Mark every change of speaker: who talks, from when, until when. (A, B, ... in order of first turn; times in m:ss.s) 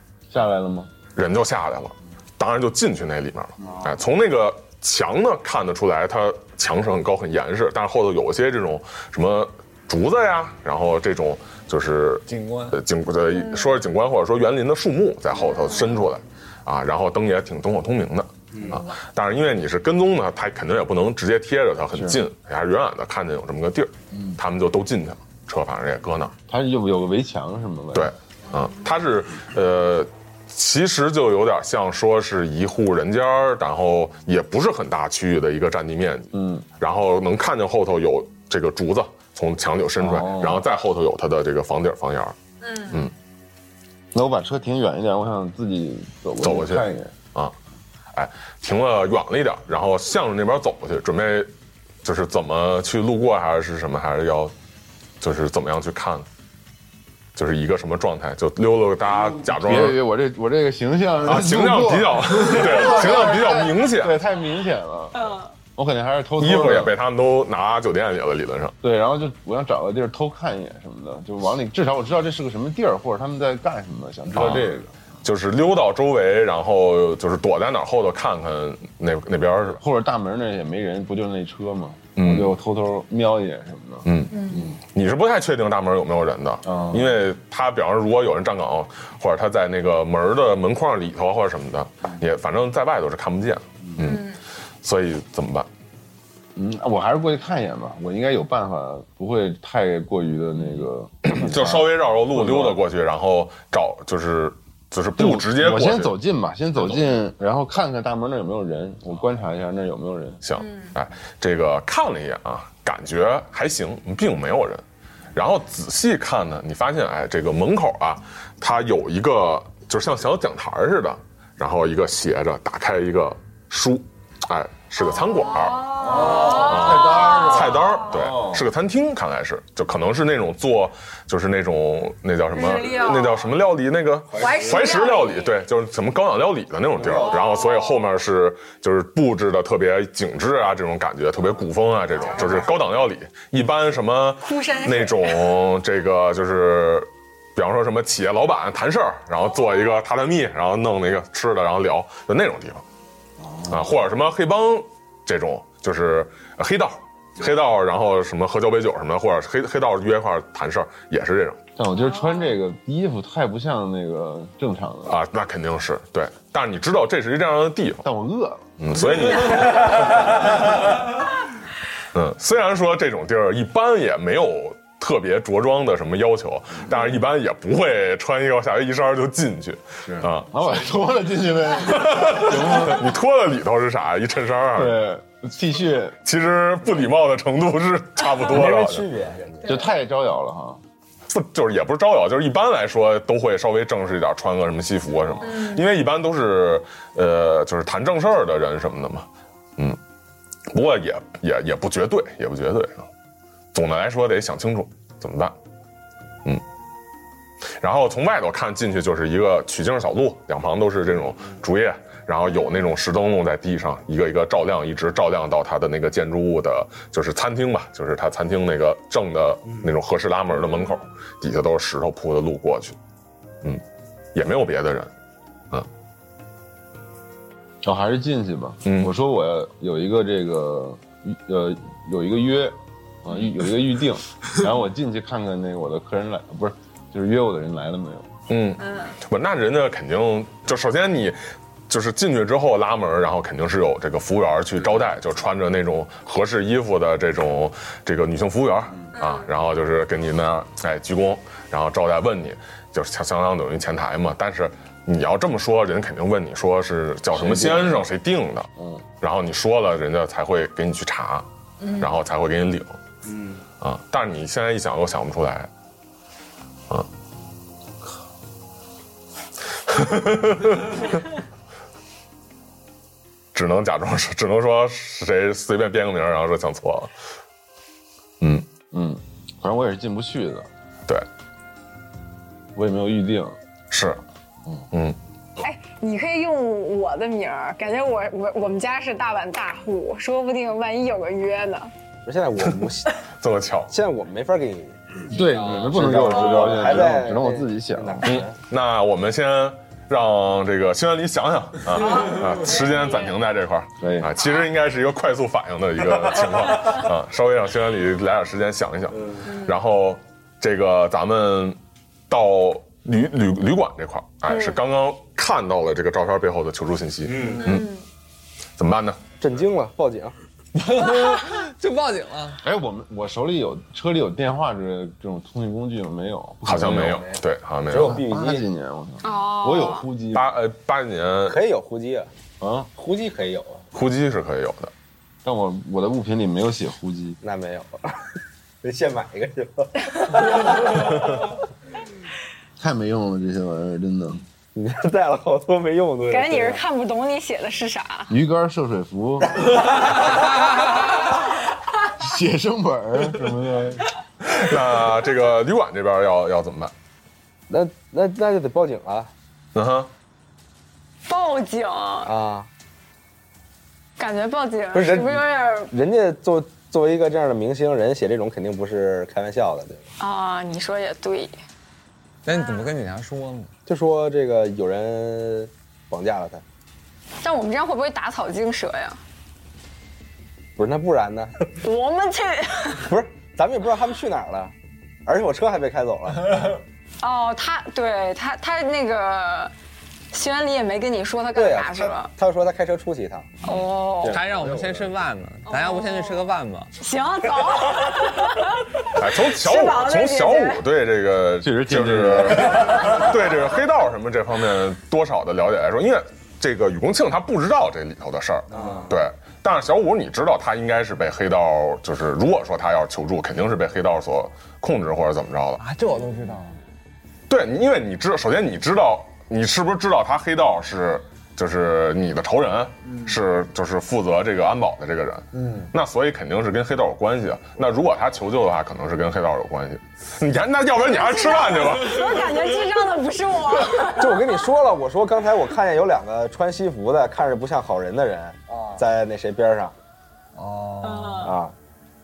0:00.3-0:00.9 A
0:01.2-0:26.4 B
0:12.3-0:12.8 C
0:21.9-0:22.2 A
0:26.5-0:28.1 A
0:27.9-0:43.1 B
0:36.3-0:36.7 A
0:40.0-0:40.6 A
0:42.6-0:42.9 D
0:44.1-0:47.2 A
0:46.4-0:47.6 B
0:48.1-0:51.5 B
0:52.0-0:54.5 B
0:55.2-0:56.3 B
0:57.4-1:00.0 B
0:59.5-1:07.0 A
1:01.2-1:04.2 B
1:05.2-1:05.4 D
1:06.4-1:08.8 B
1:08.8-1:14.9 A
1:14.3-1:14.7 B
1:15.2-1:19.8 B
1:19.8-1:24.8 A
1:22.2-1:22.6 B
1:24.0-1:35.7 B
1:26.6-1:27.1 A
1:34.1-1:34.4 D
1:36.6-1:42.8 A
1:41.2-1:46.2 B
1:45.2-1:50.4 A
1:46.8-1:47.1 B
1:50.4-2:32.8 B
2:05.6-2:07.5 D
2:05.9-2:08.6 A
2:12.6-2:13.3 D
2:14.4-2:15.5 D
2:17.3-2:17.9 D
2:24.4-2:25.5 D
2:33.4-2:33.8 A
2:33.7-2:41.6 B
2:41.8-2:45.2 A
2:45.1-2:48.1 B
2:48.0-2:48.7 A
2:48.8-2:50.7 B
2:52.1-3:00.5 B
3:00.1-3:03.1 A
3:02.0-3:05.0 B
3:04.7-3:06.2 A
3:06.2-3:09.1 B
3:08.5-3:09.8 E
3:09.6-3:10.8 A
3:11.3-3:20.0 B
3:15.5-3:15.8 D
3:20.7-3:23.1 B
3:23.7-3:25.6 B
3:27.7-3:43.0 B
3:44.3-3:45.1 B
3:47.8-3:58.3 A
3:48.8-3:49.1 B
3:58.5-4:01.4 B
4:01.9-4:18.7 B
4:17.3-4:18.1 A
4:18.8-4:19.1 A
4:19.2-4:23.0 B
4:23.8-4:25.7 B
4:29.9-4:31.2 B
4:33.5-4:37.1 B
4:38.4-4:38.7 B
4:38.9-4:40.7 A
4:42.8-4:43.6 A
4:43.9-4:44.2 B
4:44.9-4:45.2 B
4:45.6-4:51.9 D
4:52.3-4:53.1 E
4:53.4-4:53.9 B
4:53.9-4:55.0 E
4:55.3-4:58.3 A
4:55.8-4:58.5 E
4:58.2-5:17.9 B
5:04.0-5:04.4 A
5:09.5-5:09.7 D
5:14.5-5:14.8 D
5:17.5-5:18.0 D
5:18.8-5:19.2 B
5:19.4-5:20.4 E
5:20.7-5:22.6 C
5:22.6-5:27.3 A
5:26.6-5:28.2 B
5:27.9-5:28.7 E
5:27.9-5:30.5 A
5:29.2-5:30.1 D
5:30.3-5:31.6 B
5:31.5-5:32.3 E
5:32.6-5:32.9 A
5:33.0-5:33.8 E
5:33.9-5:34.9 B
5:35.4-5:37.4 A
5:37.4-5:38.2 E
5:38.8-5:41.3 E
5:42.8-5:44.4 A
5:44.8-5:46.8 E
5:46.3-5:48.3 D
5:48.3-5:49.7 A
5:52.1-5:54.1 A
5:54.4-5:56.9 B
5:57.7-5:59.3 E
5:59.8-6:00.1 B
6:01.3-6:02.3 D
6:02.2-6:02.7 E
6:04.2-6:05.9 D
6:04.9-6:10.1 E
6:10.2-6:11.6 D
6:12.4-6:13.7 C
6:12.5-6:12.8 D
6:13.9-6:16.6 E
6:17.4-6:19.2 D
6:20.8-6:21.6 E
6:21.8-6:23.1 D
6:23.1-6:24.7 E
6:25.3-6:26.8 E
6:27.2-6:29.7 D
6:30.3-6:32.3 D
6:31.6-6:33.6 E
6:33.6-6:34.4 D
6:34.2-6:35.0 A
6:34.3-6:36.9 C
6:35.7-6:36.5 D
6:37.0-6:40.8 D
6:39.2-6:55.8 B
6:41.6-6:43.2 A
6:48.8-6:49.0 E
6:55.8-6:56.8 C
6:57.5-7:12.5 B
7:11.0-7:14.6 D
7:14.2-7:19.9 E
7:20.6-7:21.5 C
7:21.0-7:21.5 D
7:21.4-7:21.7 E